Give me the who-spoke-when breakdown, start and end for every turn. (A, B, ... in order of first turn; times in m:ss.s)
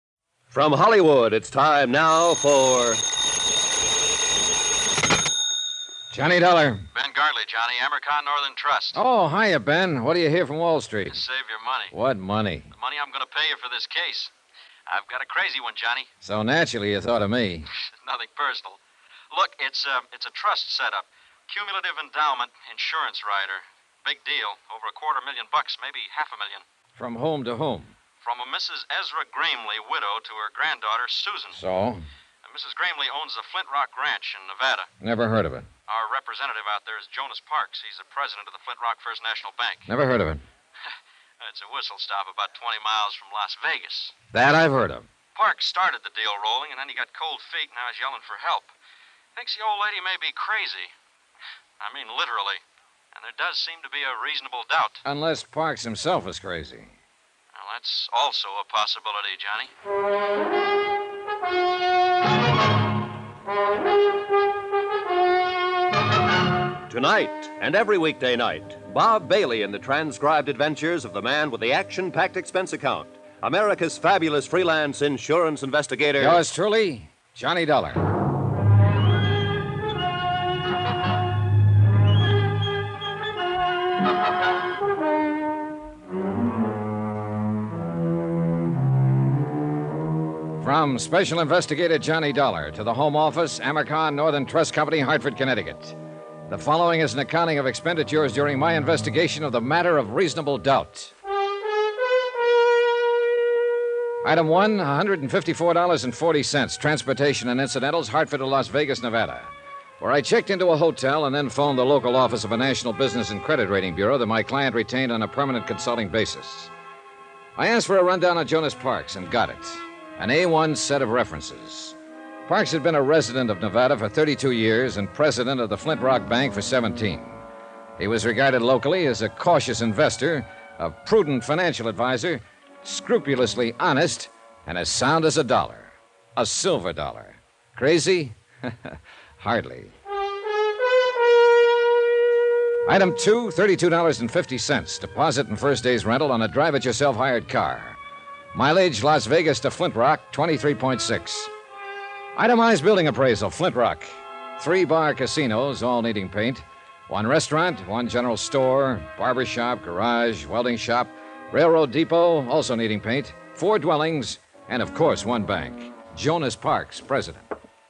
0:00.5-0:03.0 A
0:06.1-0:06.8 B
0:06.9-0:09.0 C
0:08.9-0:11.2 B
0:11.1-0:11.9 C
0:11.9-0:12.7 B
0:12.7-0:14.3 C
0:14.9-0:16.1 C
0:16.2-0:17.7 B
0:18.0-0:18.8 C
0:19.3-0:26.6 C
0:27.0-0:27.9 B
0:28.2-0:31.6 C
0:31.5-0:32.0 B
0:32.4-0:34.9 C
0:35.0-0:35.7 B
0:35.9-0:39.8 C
0:39.9-0:40.4 B
0:41.4-0:44.1 C
0:44.3-0:45.1 B
0:45.3-0:48.7 C
0:49.4-0:50.9 C
0:51.8-0:52.6 C
0:53.1-0:55.0 C
0:55.0-0:56.9 B
0:57.5-0:59.7 C
1:06.9-1:16.4 A
1:16.1-1:18.0 B
1:30.6-1:36.0 B
1:36.5-1:41.1 B
1:44.2-1:56.7 B
1:57.6-2:02.0 B
2:02.5-2:07.4 B
2:08.0-2:19.9 B
2:22.8-2:28.0 B
2:28.5-2:31.5 B
2:32.4-2:34.0 B
2:34.6-2:47.4 B